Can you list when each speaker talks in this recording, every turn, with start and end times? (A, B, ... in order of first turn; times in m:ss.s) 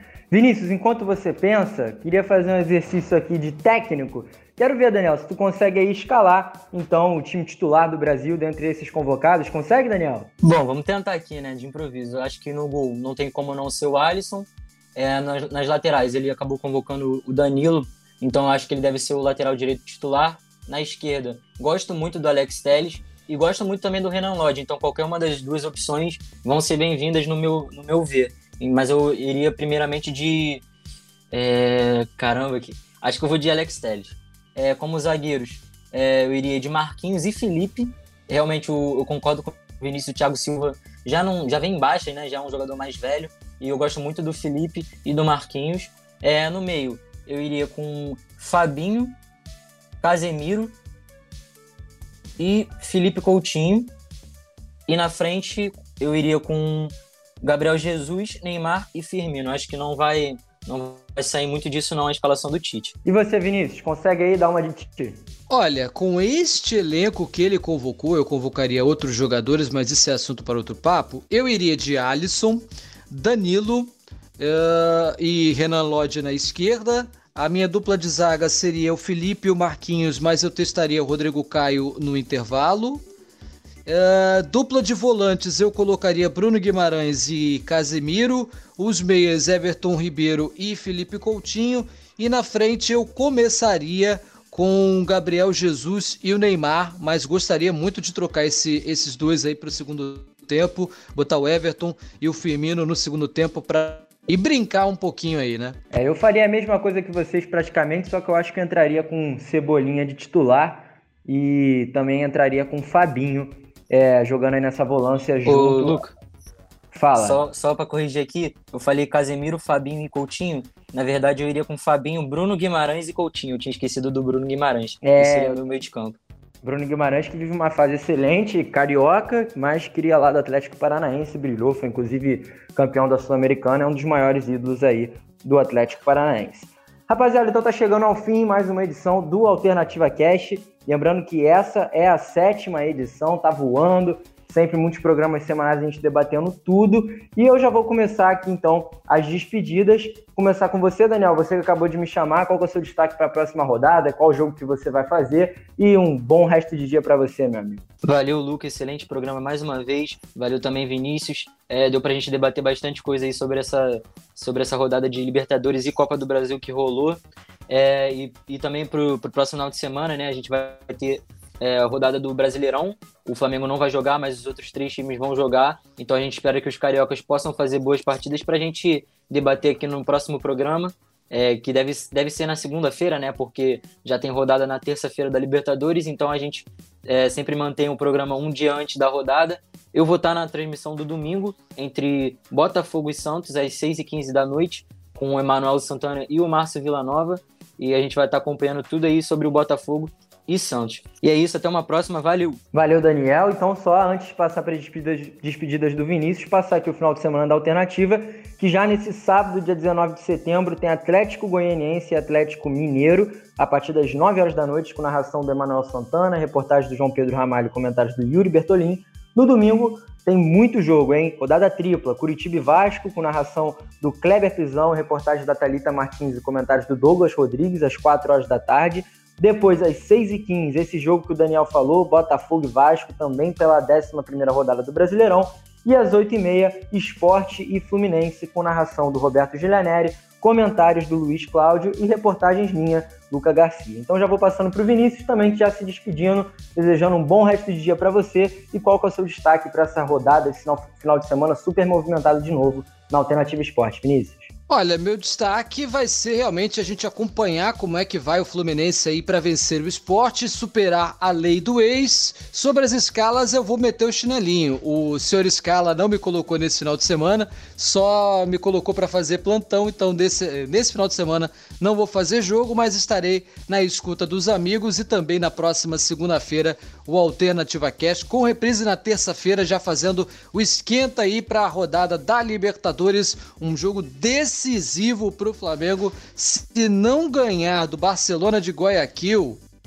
0:00.3-0:10.3 A
0:10.4-0:30.6 B
0:31.3-0:49.2 B
0:50.0-0:50.7 B
0:52.4-0:53.9 B
0:54.9-1:02.9 B
1:03.0-1:05.2 A
1:05.5-1:23.0 C
1:23.8-1:45.8 C
1:45.9-1:56.0 A
1:55.4-1:56.1 B
1:56.9-1:57.4 A
1:57.2-2:06.2 B
2:05.0-2:05.6 A
2:06.6-2:37.8 A
2:38.0-3:22.6 B
3:22.7-4:14.5 A
4:14.7-4:49.6 C